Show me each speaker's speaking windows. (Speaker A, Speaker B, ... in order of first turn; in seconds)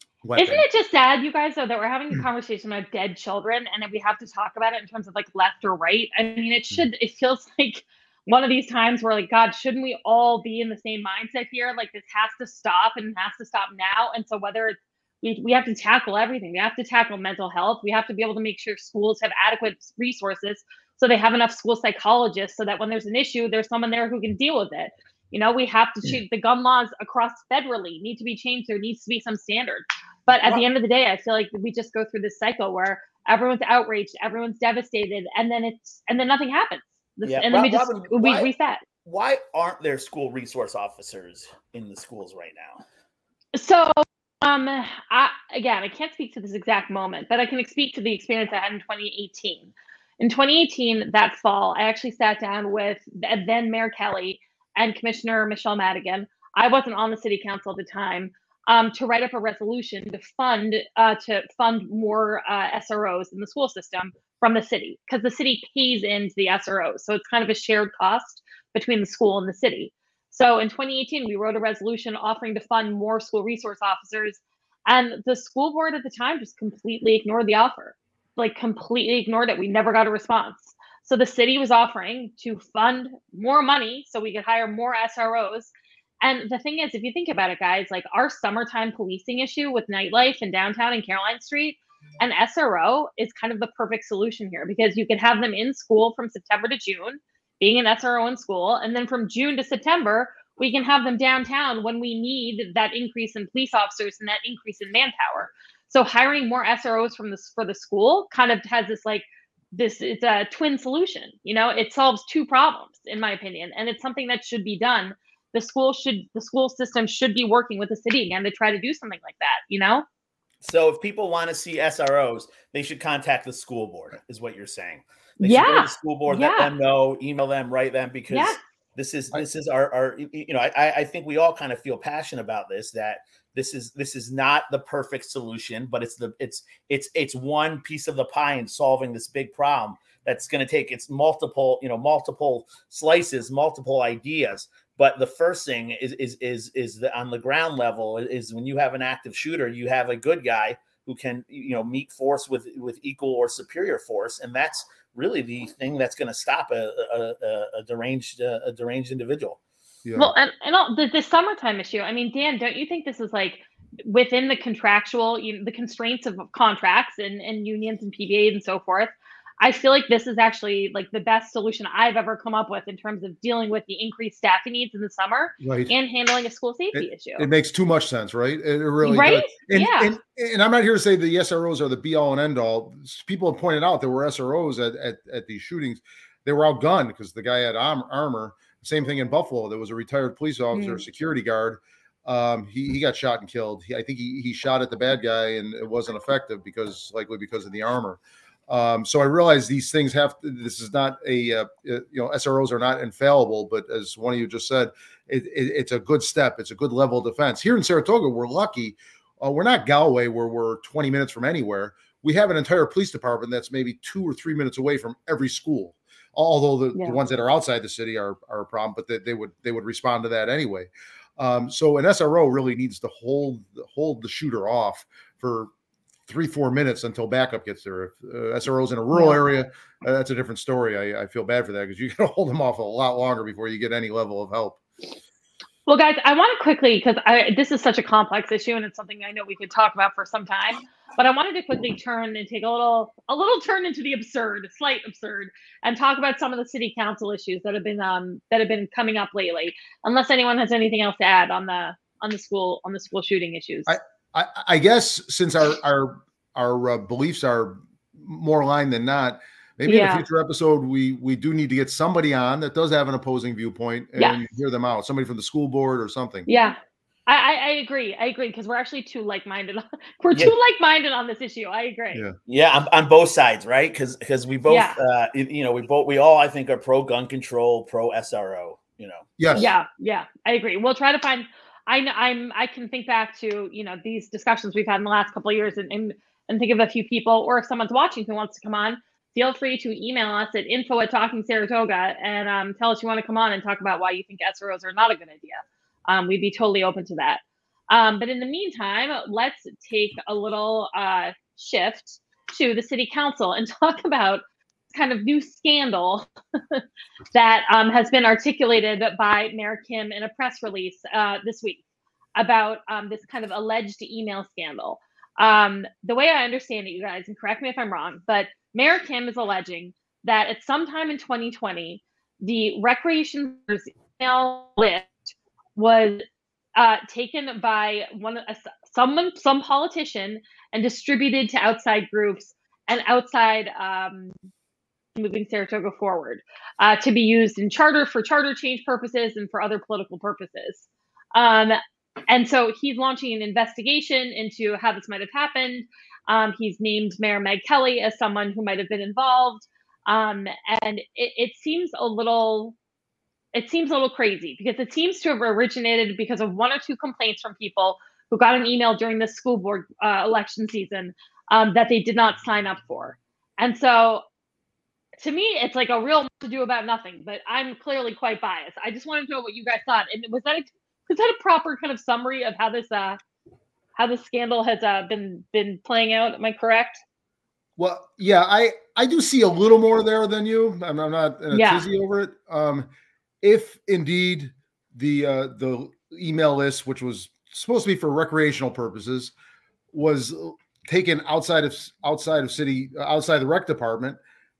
Speaker A: 0.2-0.7, 160.0-160.3, 175.6-175.9, 176.9-225.7, 226.3-234.8, 253.9-266.5, 279.4-279.6, 377.8-382.9, 383.4-389.3, 389.9-394.2
Speaker B: 0.3-38.8, 43.5-85.7, 86.2-120.0, 125.4-126.7, 128.3-128.6, 160.2-177.5, 179.0-180.1, 190.7-191.0, 229.1-229.4, 235.9-254.0, 259.8-260.2, 264.2-264.5, 266.4-272.2, 274.7-275.0, 279.5-306.8, 307.3-311.8, 312.4-326.2, 326.8-334.3, 335.1-352.8, 353.5-364.2, 365.2-373.2, 373.9-377.0, 381.5-381.8
Speaker C: 37.2-38.5, 39.0-42.8, 120.6-159.6, 272.5-279.7